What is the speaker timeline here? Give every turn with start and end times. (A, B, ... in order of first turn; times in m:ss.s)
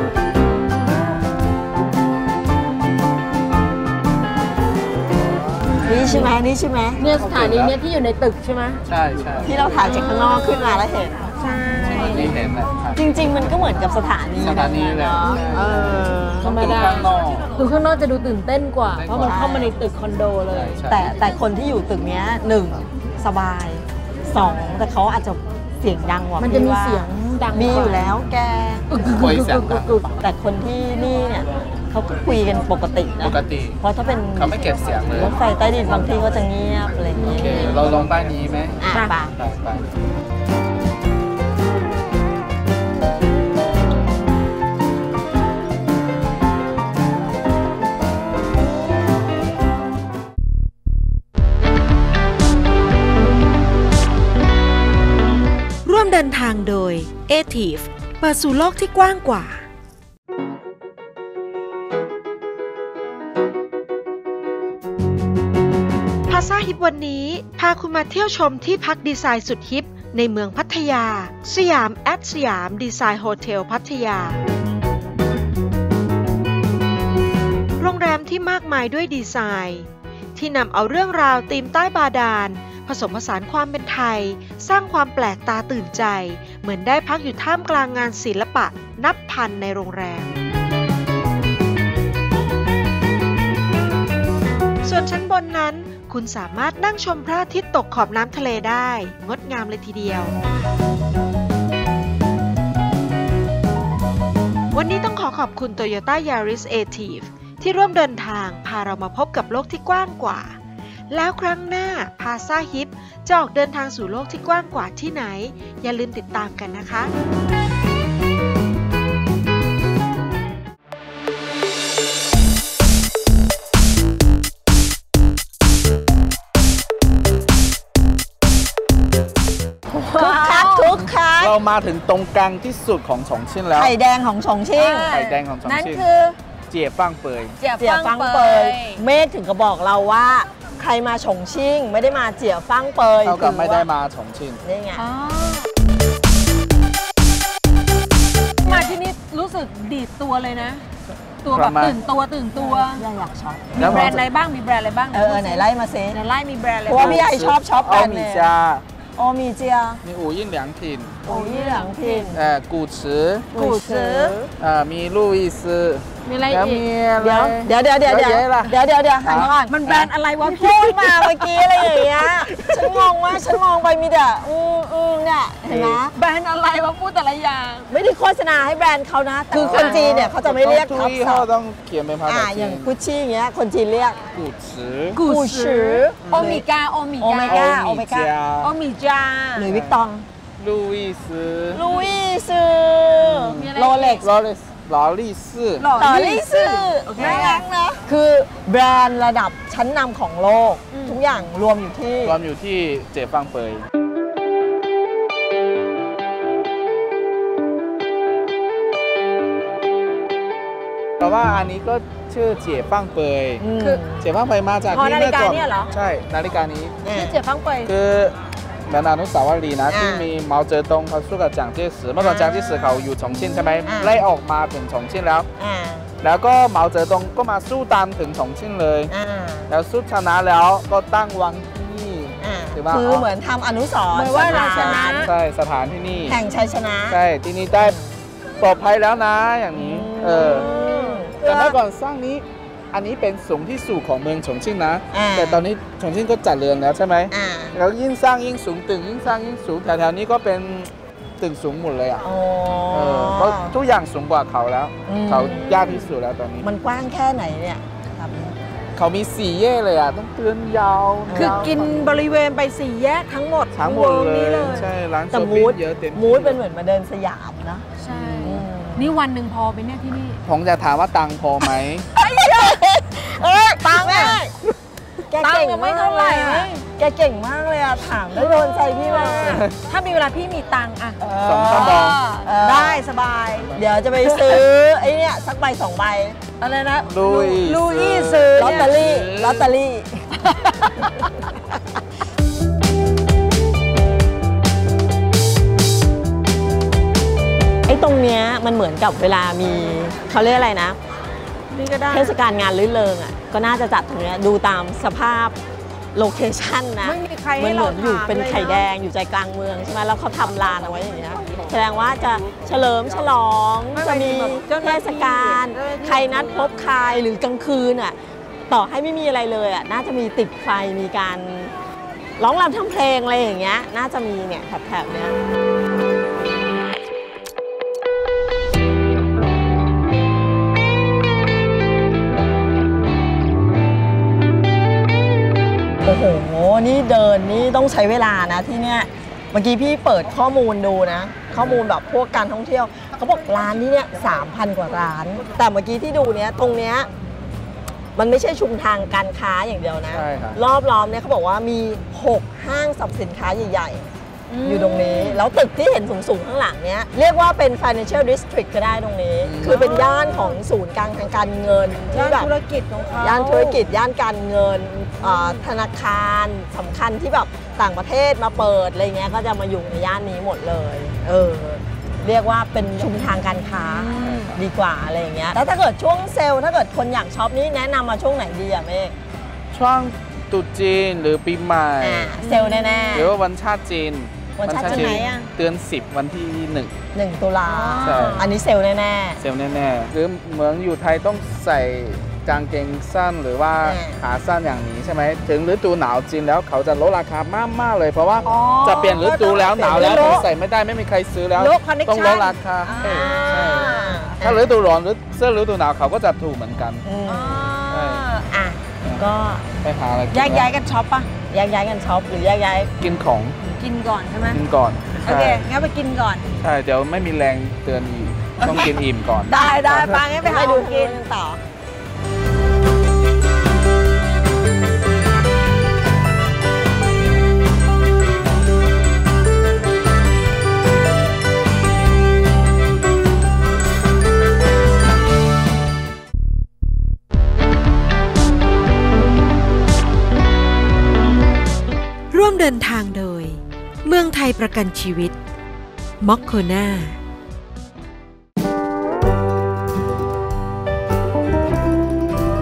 0:05.8-0:07.0 A
0:07.0-0:08.8 B
0:07.0-0:07.7 C
0:08.9-0:09.6 C
0:09.4-0:11.3 A
0:09.8-0:10.8 B
0:11.4-0:12.4 B
0:11.8-0:16.8 A
0:11.8-0:13.5 C
0:14.4-0:17.5 C
0:15.3-0:20.8 B
0:18.9-0:19.4 C
0:19.2-0:19.7 A
0:20.5-0:21.1 C
0:20.8-0:28.9 A
0:26.4-0:28.1 B
0:28.9-0:30.1 B
0:29.0-0:30.2 C
0:30.2-0:38.0 A
0:33.2-0:33.8 C
0:34.4-0:36.1 C
0:37.2-0:39.9 C
0:37.3-0:37.8 B
0:38.8-0:39.3 A
0:38.9-0:39.2 B
0:55.8-0:59.6 D
1:06.3-1:14.4 D
1:17.8-1:30.3 D
1:34.8-1:40.4 D
1:44.7-1:50.6 D
1:51.1-1:57.1 D
2:10.0-2:10.9 B
2:10.1-2:11.6 A
2:11.4-2:13.9 C
2:13.7-2:15.1 A
2:14.8-2:16.4 B
2:15.1-2:16.1 C
2:16.7-2:17.6 C
2:17.6-2:19.0 B
2:17.8-2:23.9 A
2:23.2-2:24.6 C
2:24.6-2:25.0 A
2:25.0-2:25.7 B
2:28.6-2:30.9 B
2:31.4-2:33.1 B
2:31.5-2:32.0 C
2:32.5-2:34.1 A
2:33.8-2:37.3 B
2:33.8-2:34.2 C
2:35.1-2:36.2 A
2:36.9-2:38.5 A
2:36.9-2:38.8 C
2:39.2-2:40.0 A
2:40.0-2:41.2 C
2:41.3-2:42.4 A
2:41.3-2:42.4 B
2:42.3-2:43.5 C
2:43.5-2:44.4 B
2:43.5-2:44.5 A
2:44.6-2:47.4 C
2:46.2-2:47.7 B
2:47.2-2:49.8 A
2:48.0-2:50.1 C
2:49.7-2:52.7 B
2:50.4-2:56.1 A
2:55.7-2:56.0 C
2:56.1-2:57.9 B
2:57.9-3:01.5 A
2:59.5-3:00.1 B
2:59.6-3:02.9 C
3:02.3-3:04.2 A
3:04.3-3:05.2 C
3:05.2-3:07.7 B
3:05.2-3:06.6 A
3:07.2-3:08.3 A
3:07.4-3:08.7 C
3:08.6-3:09.7 B
3:09.6-3:10.3 A
3:09.6-3:10.0 C
3:10.6-3:11.8 C
3:11.7-3:14.3 A
3:11.8-3:12.1 B
3:13.2-3:13.6 C
3:13.5-3:14.3 B
3:14.2-3:15.9 C
3:15.8-3:17.7 B
3:16.0-3:22.4 A
3:20.9-3:21.2 B
3:22.2-3:23.9 C
3:31.2-3:33.6 C
3:33.6-3:34.2 A
3:34.2-3:37.0 C
3:34.9-3:35.9 B
3:37.0-3:37.4 A
3:37.1-3:37.9 B
3:37.9-3:38.4 C
3:38.9-3:45.5 C
3:39.9-3:40.3 A
3:42.2-3:43.2 A
3:43.5-3:43.8 B
3:43.8-3:44.2 A
3:45.6-3:46.1 A
3:46.2-3:49.1 C
3:49.1-3:49.7 A
3:49.7-3:53.3 C
3:52.4-3:55.3 A
3:54.1-3:55.3 B
3:54.3-3:56.4 C
3:56.2-3:57.2 A
3:57.1-3:58.0 C
3:57.8-3:58.2 A
3:58.6-4:00.7 C
3:59.7-4:01.8 A
4:00.2-4:01.3 B
4:01.4-4:12.2 C
4:05.1-4:05.6 A
4:07.3-4:07.8 A
4:12.2-4:13.8 A
4:12.9-4:16.7 C
4:15.1-4:16.1 A
4:15.7-4:16.0 B
4:16.6-4:18.6 A
4:19.0-4:22.1 C
4:21.3-4:21.9 A
4:21.3-4:24.9 B
4:23.7-4:26.6 C
4:25.3-4:27.9 A
4:28.0-4:30.4 B
4:28.1-4:28.6 C
4:28.4-4:29.1 A
4:30.5-4:32.1 C
4:32.1-4:34.5 A
4:33.9-4:34.4 B
4:35.3-4:39.7 A
4:35.4-4:36.8 B
4:38.4-4:44.6 B
4:39.4-4:39.8 C
4:41.2-4:43.0 A
4:41.4-4:42.2 C
4:43.8-4:46.4 A
4:46.6-4:49.0 B
4:47.1-4:49.7 C
4:48.6-4:50.3 A
4:50.5-4:50.9 B
4:51.0-4:51.2 A
4:57.9-5:01.0 A
5:01.7-5:02.4 B
5:02.1-5:05.6 A
5:06.1-5:18.2 A
5:07.0-5:08.9 B
5:10.4-5:13.4 C
5:13.9-5:16.9 B
5:18.7-5:21.7 A
5:22.4-5:25.4 A
5:36.0-5:47.1 A
5:41.6-5:41.8 C
5:48.2-5:54.1 A
5:50.1-5:50.6 C
5:54.5-5:55.4 B
5:54.6-6:02.5 A
5:59.4-5:59.9 C
5:59.6-6:00.6 B
6:02.1-6:03.8 B
6:03.2-6:19.1 A
6:05.2-6:05.6 B
6:13.6-6:14.6 B
6:19.7-6:22.3 C
6:22.0-6:23.4 A
6:22.4-6:23.3 B
6:23.1-6:26.9 C
6:24.6-6:25.5 A
6:24.8-6:25.5 B
6:27.1-6:29.4 A
6:27.6-6:28.5 B
6:28.0-6:28.5 C
6:29.4-6:47.0 C
6:33.8-6:34.2 A
6:38.4-6:40.5 B
6:38.4-6:38.7 A
6:39.5-6:40.5 A
6:41.6-6:43.2 B
6:42.8-6:44.6 A
6:47.0-6:49.7 A
6:47.3-6:47.9 B
6:47.9-6:48.2 C
6:49.8-6:50.7 C
6:50.3-6:51.3 B
6:51.5-6:52.9 A
6:53.0-6:53.6 C
6:53.6-6:54.6 B
6:54.5-6:55.6 C
6:55.2-6:56.5 B
6:56.6-7:00.2 C
6:58.6-6:59.0 B
6:59.5-7:01.2 B
7:00.4-7:01.6 A
7:22.3-7:25.4 D
7:26.2-7:27.2 D